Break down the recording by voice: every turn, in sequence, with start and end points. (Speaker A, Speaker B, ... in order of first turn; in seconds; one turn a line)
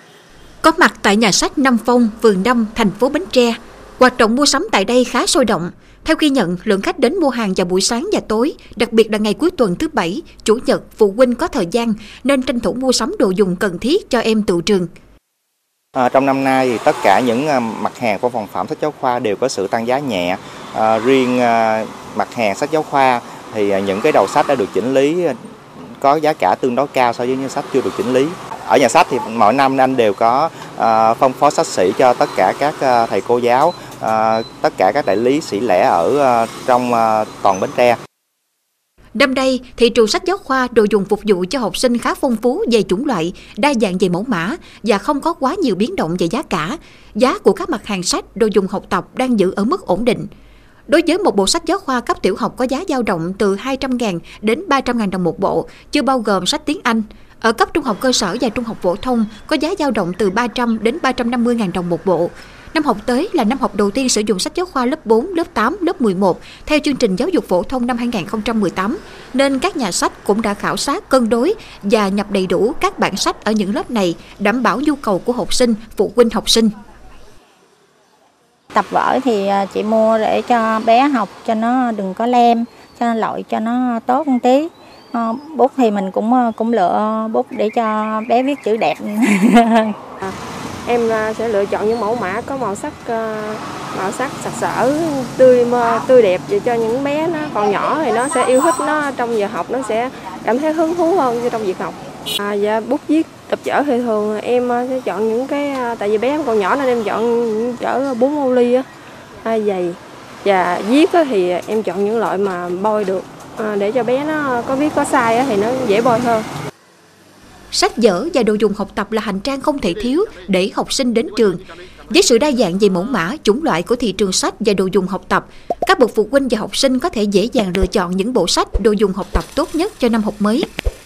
Speaker A: 0.6-14.9
Speaker B: 15.9-25.4
Speaker B: 26.0-38.0
Speaker A: 39.1-50.3
Speaker A: 50.9-76.7
Speaker C: 78.7-89.9
Speaker D: 90.2-108.8
Speaker D: 109.4-116.5
Speaker A: 117.7-130.7